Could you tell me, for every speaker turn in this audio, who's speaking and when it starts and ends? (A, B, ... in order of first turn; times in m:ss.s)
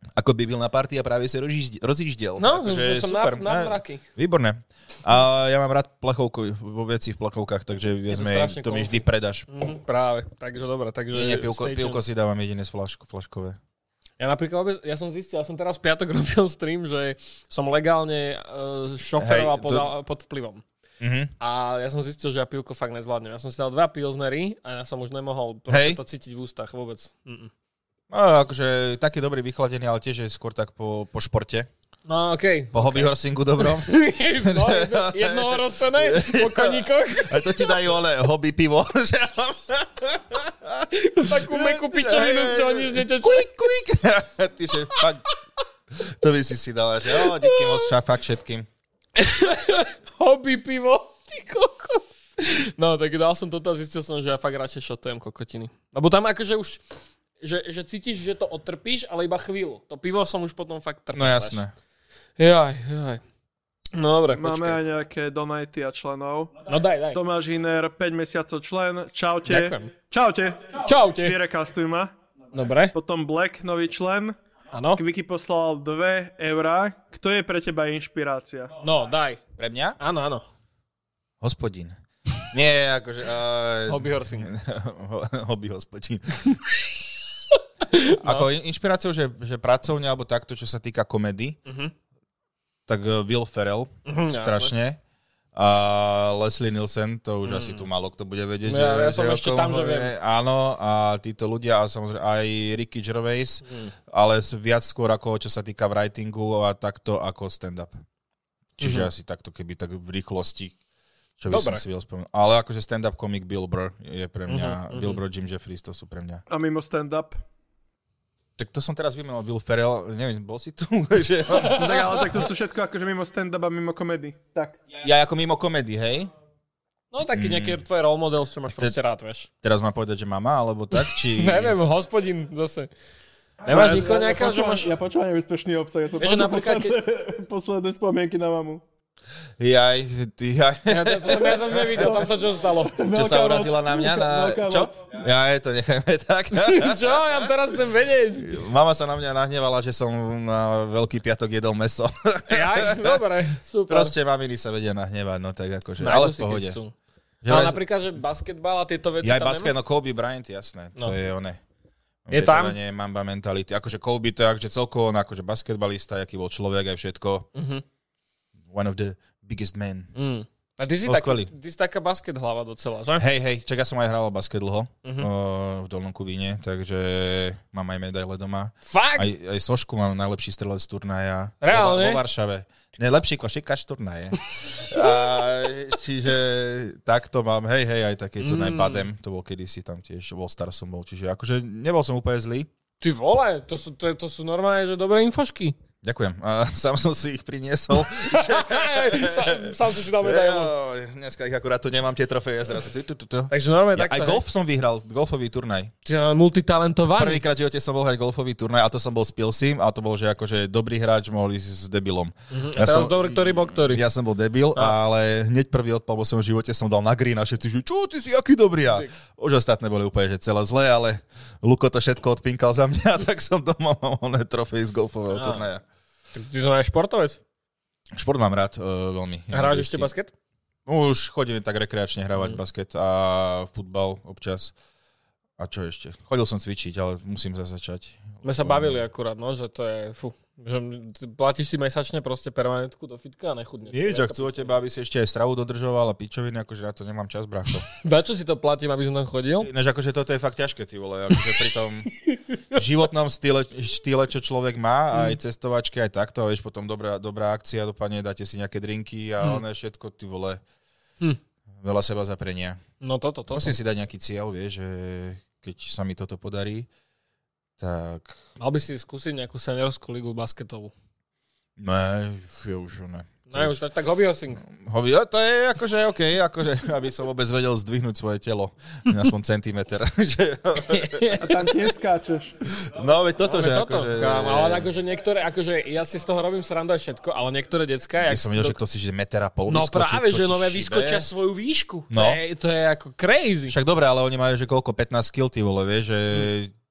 0:00.2-0:09.5 A
0:02.4-0:04.0 B
0:08.1-0:12.0 B
0:11.1-0:13.6 A
0:14.2-0:20.6 B
0:19.2-0:19.9 A
0:21.0-0:21.3 A
0:21.4-0:27.5 B
0:25.7-0:26.0 A
0:28.1-0:31.7 A
0:32.1-0:37.7 B
0:32.7-0:45.3 A
0:40.9-0:43.7 B
0:46.0-0:48.7 A
0:47.1-0:47.9 B
0:49.2-0:56.8 B
0:57.4-1:01.6 B
1:01.1-1:01.7 A
1:02.4-1:03.2 B
1:03.9-1:04.8 B
1:04.3-1:06.5 C
1:06.7-1:07.2 B
1:07.1-1:12.1 C
1:09.4-1:09.9 B
1:10.8-1:11.4 B
1:12.5-1:13.0 B
1:12.9-1:14.4 C
1:14.7-1:15.0 B
1:15.0-1:18.8 C
1:18.8-1:19.4 B
1:19.6-1:20.0 A
1:20.0-1:20.5 B
1:21.4-1:22.0 A
1:22.5-1:26.6 A
1:23.9-1:24.5 B
1:27.8-1:28.5 B
1:28.2-1:31.6 A
1:31.7-1:31.9 B
1:32.9-1:35.0 A
1:34.1-1:34.7 B
1:35.5-1:48.0 A
1:37.4-1:37.9 B
1:38.6-1:40.1 B
1:43.6-1:43.9 B
1:48.8-1:49.1 B
1:48.8-1:50.8 A
1:51.4-1:56.4 A
1:51.5-1:51.8 B
1:54.5-1:55.2 B
1:56.5-1:57.4 C
1:58.6-2:02.4 A
2:01.5-2:02.2 B
2:01.7-2:04.8 C
2:05.0-2:06.3 A
2:07.1-2:09.5 B
2:07.3-2:07.8 A
2:08.7-2:09.0 A
2:09.6-2:11.8 A
2:10.9-2:12.9 B
2:13.7-2:14.9 B
2:13.7-2:18.8 C
2:13.7-2:14.0 A
2:16.2-2:17.0 B
2:19.6-2:22.2 A
2:20.9-2:23.0 B
2:21.7-2:25.0 C
2:23.1-2:27.5 A
2:26.5-2:28.6 B
2:28.4-2:33.3 A
2:32.5-2:34.2 B
2:33.9-2:36.8 A
2:36.0-2:37.0 B
2:37.4-2:37.8 A
2:37.5-2:39.7 B
2:39.2-2:41.6 A
2:42.3-2:47.5 A
2:42.3-2:42.8 B
2:47.6-2:47.8 B
2:48.7-2:50.1 A
2:50.2-2:53.2 B
2:51.0-2:51.5 A
2:53.2-3:12.7 A
2:55.0-2:55.3 B
2:58.8-2:59.3 B
3:01.6-3:02.2 B
3:04.9-3:05.2 B
3:08.4-3:09.1 B
3:13.0-3:15.8 B
3:16.0-3:25.9 A
3:18.0-3:20.7 B
3:23.5-3:24.4 B
3:26.0-3:27.4 B
3:27.2-3:45.8 A
3:32.5-3:34.0 B
3:45.3-3:45.7 B
3:46.3-3:47.4 B
3:48.1-3:50.1 A
3:49.5-3:50.3 B
3:50.9-3:54.8 A
3:55.6-3:59.0 A
3:58.4-4:04.8 B
4:03.9-4:07.9 A
4:08.0-4:09.7 B
4:09.6-4:12.1 A
4:12.3-4:12.8 B
4:12.7-4:20.6 A
4:15.1-4:15.4 B
4:21.8-4:22.8 A
4:23.0-4:23.8 B
4:23.5-4:26.9 A
4:27.8-4:28.4 A
4:28.6-4:30.9 B
4:31.8-4:33.8 A
4:33.5-4:34.7 B
4:34.7-4:41.4 A
4:40.9-4:41.5 B
4:41.4-4:42.6 C
4:42.8-4:44.9 A
4:43.4-4:48.8 B
4:48.2-4:51.3 A
4:49.7-4:53.8 B
4:52.1-4:52.4 A
4:53.7-4:56.7 A